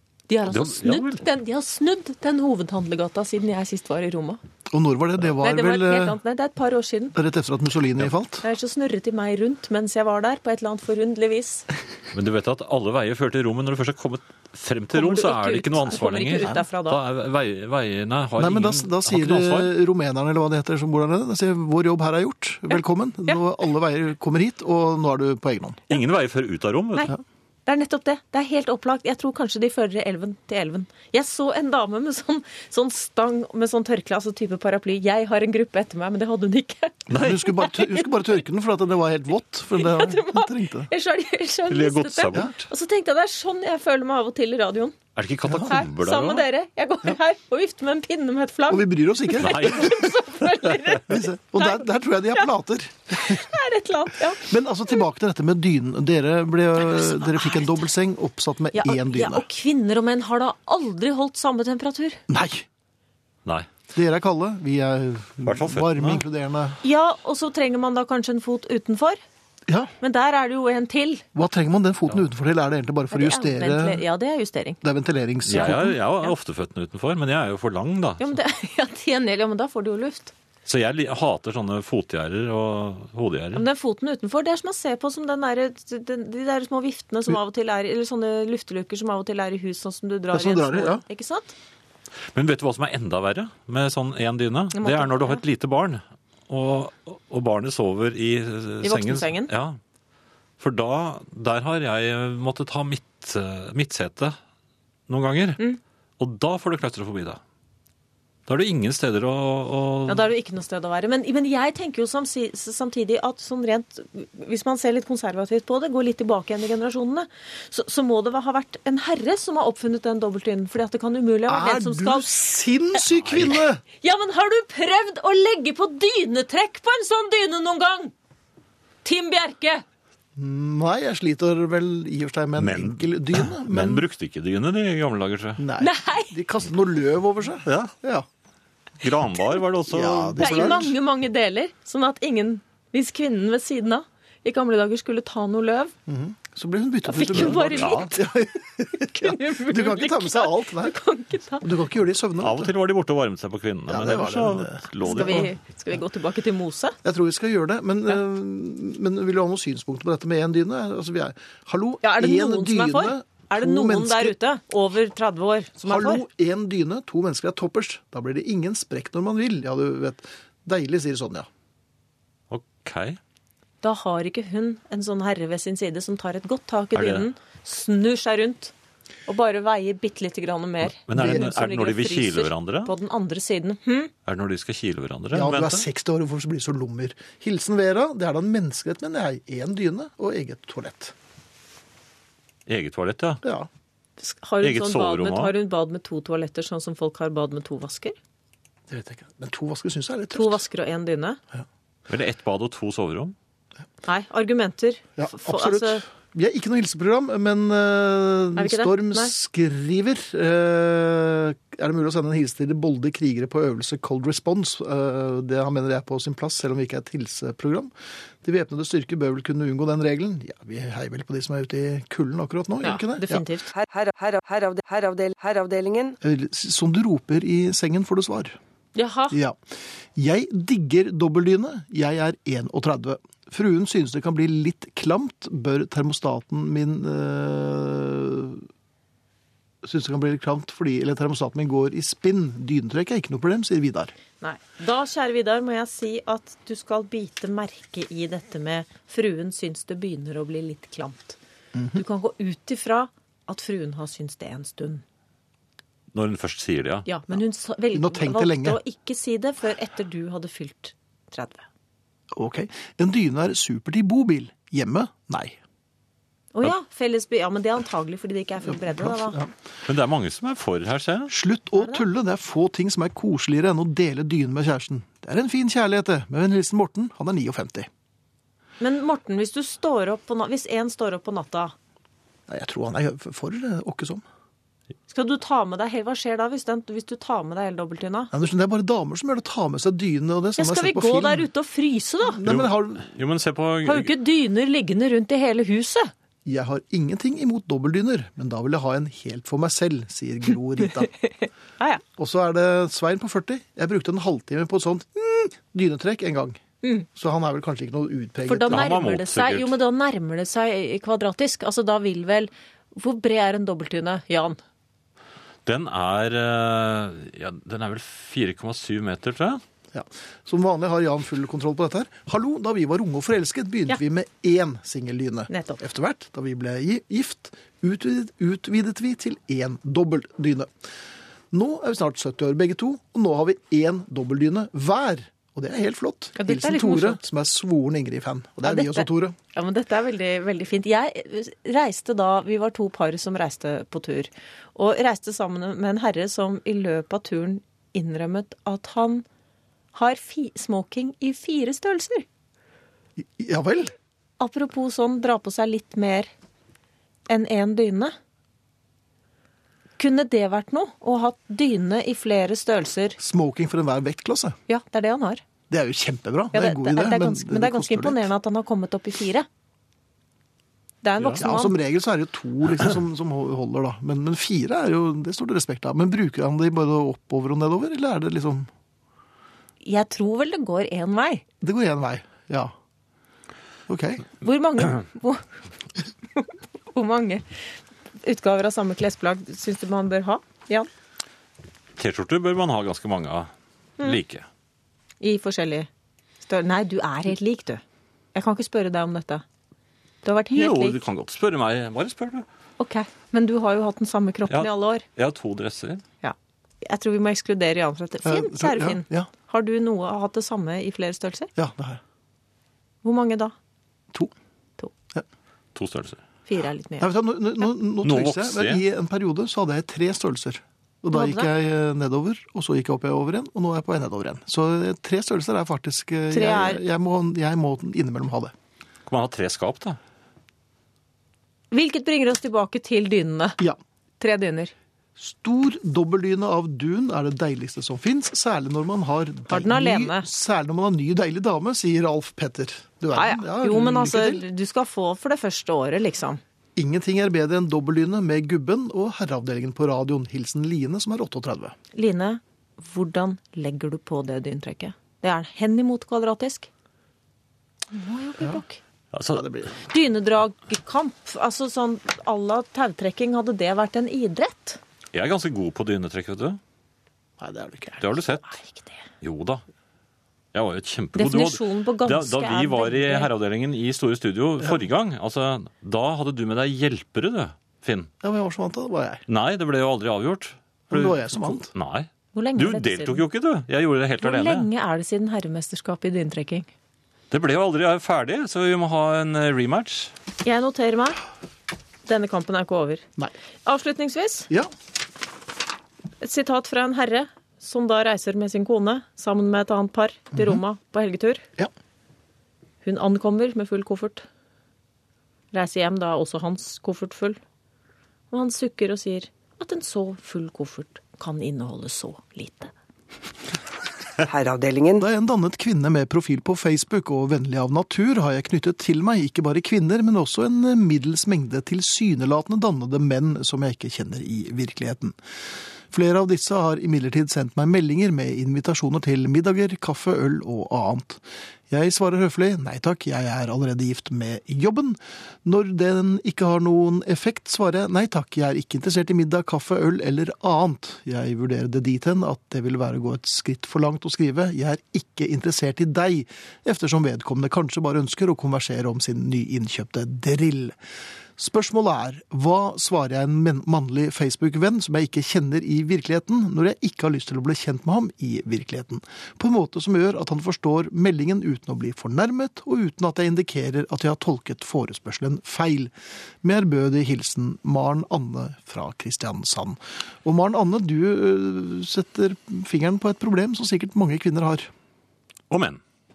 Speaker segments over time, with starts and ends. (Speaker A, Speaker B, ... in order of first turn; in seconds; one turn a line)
Speaker A: 0.3-4.4
Speaker B: 0.5-1.2
Speaker C: 4.7-6.2
Speaker A: 5.3-7.2
Speaker C: 7.2-8.4
Speaker A: 8.4-11.7
Speaker B: 12.1-19.7
Speaker A: 14.9-17.0
Speaker C: 18.4-26.0
Speaker B: 25.9-27.1
Speaker A: 27.0-38.1
Speaker C: 37.1-40.9
Speaker B: 37.1-37.5
Speaker A: 39.7-45.0
Speaker B: 41.7-42.7
Speaker B: 45.2-46.5
Speaker C: 45.5-45.8
Speaker A: 45.6-52.5
Speaker C: 48.7-50.0
Speaker B: 49.4-50.2
Speaker C: 51.0-53.5
Speaker A: 53.1-54.5
Speaker C: 54.4-59.5
Speaker A: 56.9-57.8
Speaker A: 58.7-62.2
Speaker C: 62.3-62.7
Speaker C: 63.9-66.8
Speaker B: 65.5-66.2
Speaker A: 66.8-69.2
Speaker C: 69.7-69.9
Speaker A: 70.0-71.3
Speaker C: 71.3-74.0
Speaker A: 73.1-74.8
Speaker C: 74.8-76.0
Speaker B: 75.5-78.4
Speaker A: 75.5-76.3
Speaker A: 78.2-80.3
Speaker B: 80.7-83.7
Speaker A: 83.5-91.5
Speaker C: 90.3-91.0
Speaker B: 92.3-99.8
Speaker A: 94.7-95.4
Speaker A: 98.8-99.5
Speaker B: 100.6-104.4
Speaker B: 105.1-105.6
Speaker B: 106.2-107.4
Speaker B: 108.5-110.3
Speaker A: 110.1-122.5
Speaker C: 121.5-123.8
Speaker B: 123.2-123.5
Speaker A: 123.9-128.1
Speaker A: 129.0-129.8
Speaker C: 130.4-134.1
Speaker B: 132.6-135.6
Speaker C: 135.6-138.3
Speaker A: 135.8-136.3
Speaker B: 137.7-137.9
Speaker B: 139.0-140.9
Speaker C: 139.9-140.9
Speaker A: 140.4-145.9
Speaker C: 146.1-151.0
Speaker A: 147.1-148.3
Speaker B: 147.3-148.1
Speaker A: 148.9-151.7
Speaker C: 151.6-152.7
Speaker B: 152.4-155.5
Speaker C: 153.9-155.5
Speaker A: 155.0-157.0
Speaker C: 157.0-164.4
Speaker A: 162.0-166.3
Speaker C: 165.8-171.5
Speaker B: 172.5-173.2
Speaker A: 173.8-178.7
Speaker B: 176.9-177.2
Speaker A: 179.3-184.1
Speaker B: 181.0-182.9
Speaker C: 181.2-181.5
Speaker B: 184.3-185.9
Speaker C: 185.3-191.1
Speaker B: 192.7-193.4
Speaker C: 193.4-193.7
Speaker A: 194.2-198.2
Speaker B: 194.6-195.5
Speaker C: 198.9-200.6
Speaker A: 200.3-201.4
Speaker B: 202.1-203.3
Speaker A: 204.1-206.0
Speaker C: 205.2-223.5
Speaker A: 208.6-209.3
Speaker A: 222.8-223.7
Speaker D: 223.8-226.2
Speaker C: 226.2-228.6
Speaker A: 228.9-229.4
Speaker C: 229.3-229.6
Speaker C: 230.2-238.7
Speaker C: 239.8-244.2
Speaker A: 244.4-251.4
Speaker C: 251.7-252.0
Speaker A: 251.9-255.0
Speaker B: 256.1-257.1
Speaker A: 257.1-261.7
Speaker C: 257.9-258.8
Speaker C: 262.3-265.6
Speaker A: 266.5-269.4
Speaker C: 268.7-269.5
Speaker B: 269.9-271.3
Speaker C: 271.3-277.9
Speaker A: 271.8-272.0
Speaker A: 278.8-281.7
Speaker C: 282.5-284.2
Speaker A: 285.1-288.3
Speaker C: 288.3-291.5
Speaker A: 290.6-292.4
Speaker C: 292.3-293.1
Speaker B: 292.4-294.1
Speaker A: 293.9-296.1
Speaker C: 296.4-301.1
Speaker A: 300.9-302.0
Speaker C: 302.2-306.6
Speaker C: 307.1-308.9
Speaker A: 308.4-314.6
Speaker B: 308.7-309.8
Speaker B: 315.7-319.6
Speaker C: 319.9-330.7
Speaker A: 325.5-325.8
Speaker C: 331.5-339.4
Speaker A: 336.4-337.2
Speaker A: 338.6-349.3
Speaker A: 349.9-352.3
Speaker C: 353.2-353.9
Speaker A: 354.4-356.3
Speaker A: 357.3-358.1
Speaker A: 360.0-363.2
Speaker C: 363.2-364.6
Speaker A: 364.7-365.4
Speaker C: 365.7-368.3
Speaker A: 366.5-369.5
Speaker A: 371.0-371.8
Speaker C: 371.4-378.7
Speaker A: 379.8-381.4
Speaker C: 381.6-382.7
Speaker C: 383.9-384.3
Speaker A: 384.4-385.4
Speaker A: 386.4-387.7
Speaker A: 388.2-390.9
Speaker B: 392.0-394.5
Speaker A: 395.2-395.9
Speaker A: 396.4-397.8
Speaker A: 398.3-399.4
Speaker A: 400.2-401.0
Speaker B: 400.5-402.4
Speaker A: 402.8-405.1
Speaker B: 404.5-406.0
Speaker A: 406.2-411.5
Speaker C: 408.2-409.3
Speaker C: 411.6-412.0
Speaker A: 413.0-413.5
Speaker B: 415.8-416.2
Speaker A: 416.5-417.1
Speaker C: 417.0-428.5
Speaker B: 418.0-418.8
Speaker A: 421.1-421.5
Speaker A: 426.3-426.8
Speaker B: 429.1-430.0
Speaker A: 431.7-433.6
Speaker A: 434.2-434.7
Speaker C: 435.2-444.4
Speaker A: 439.5-440.3
Speaker A: 443.1-446.4
Speaker C: 446.8-451.8
Speaker A: 451.9-456.7
Speaker A: 457.9-458.8
Speaker B: 459.1-459.5
Speaker C: 459.3-459.8
Speaker A: 459.8-464.8
Speaker B: 465.1-466.6
Speaker C: 467.4-468.2
Speaker B: 468.0-468.6
Speaker A: 468.4-469.0
Speaker B: 469.2-469.6
Speaker B: 470.5-478.1
Speaker A: 471.2-473.3
Speaker C: 478.2-479.2
Speaker B: 479.3-484.7
Speaker C: 480.9-481.7
Speaker A: 482.4-483.2
Speaker A: 484.2-486.7
Speaker B: 487.3-490.1
Speaker A: 490.4-491.2
Speaker A: 492.1-493.1
Speaker A: 493.7-494.5
Speaker A: 496.2-501.4
Speaker C: 500.3-500.6
Speaker A: 502.8-504.3
Speaker A: 505.5-507.4
Speaker A: 508.3-512.7
Speaker D: 514.2-515.1
Speaker C: 515.0-525.2
Speaker C: 525.9-550.8
Speaker C: 551.4-574.7
Speaker B: 575.5-575.8